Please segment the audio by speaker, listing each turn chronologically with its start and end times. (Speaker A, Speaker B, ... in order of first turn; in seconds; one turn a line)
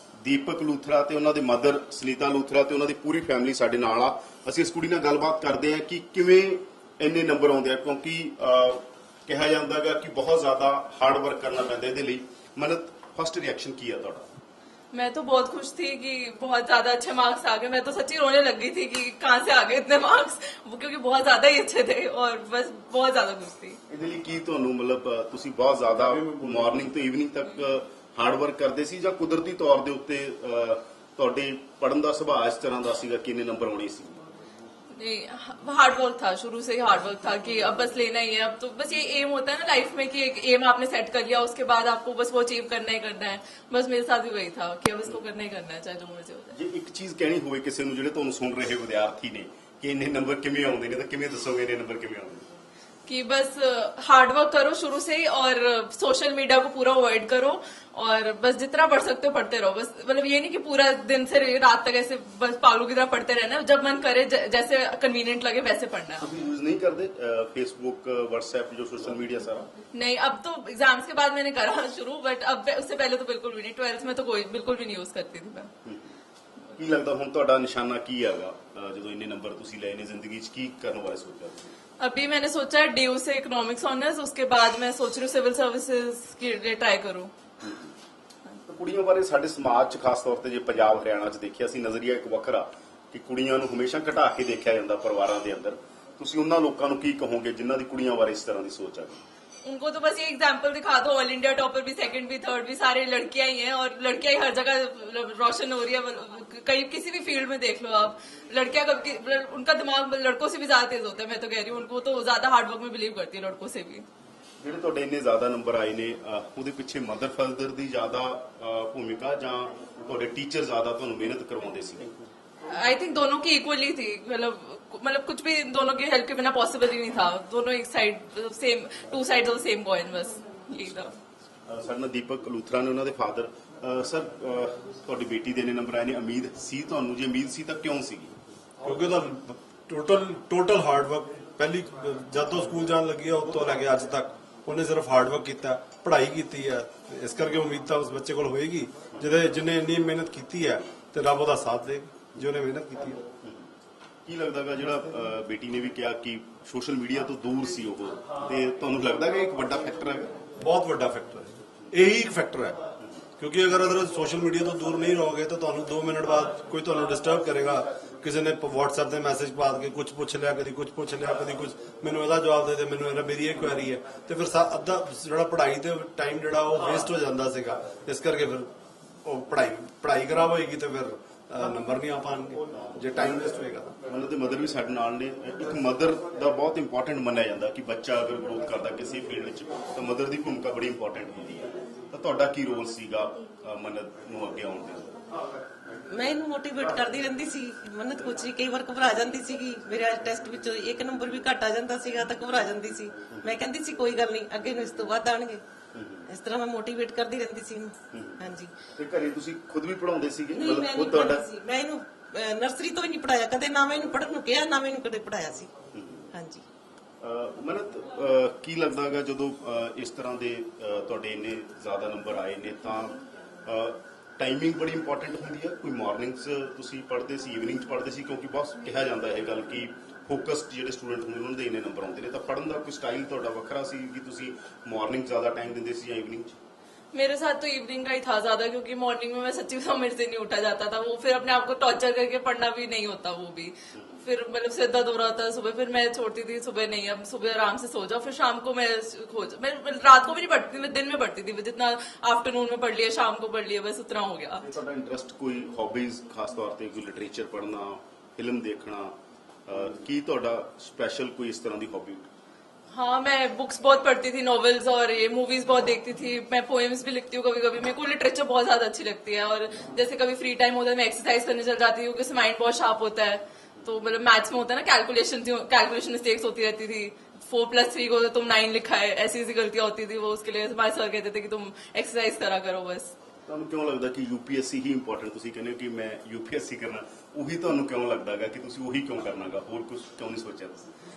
Speaker A: 0.2-14.3
Speaker B: 14.9-23.8
Speaker A: 23.9-34.2
Speaker B: 35.0-46.6
Speaker A: 46.5-52.5
Speaker B: 53.0-66.3
Speaker A: 66.2-69.7
Speaker B: 69.9-75.7
Speaker A: 75.8-76.2
Speaker A: 76.8-81.8
Speaker B: 82.0-87.3
Speaker A: 87.6-87.9
Speaker A: 88.7-99.2
Speaker B: 99.6-114.0
Speaker A: 114.6-122.1
Speaker B: 122.7-131.2
Speaker A: 131.7-138.3
Speaker C: 138.8-153.2
Speaker A: 153.4-153.7
Speaker A: 154.2-160.3
Speaker C: 160.6-162.8
Speaker C: 163.4-178.7
Speaker C: 179.2-183.9
Speaker A: 184.1-195.1
Speaker D: 196.1-205.6
Speaker A: 205.9-206.2
Speaker D: 206.2-208.9
Speaker A: 208.1-211.3
Speaker D: 210.5-215.8
Speaker A: 215.9-216.3
Speaker D: 216.3-216.6
Speaker A: 217.2-236.6
Speaker B: 237.1-254.7
Speaker A: 254.7-259.1
Speaker A: 259.7-262.3
Speaker B: 262.9-283.1
Speaker A: 283.5-290.9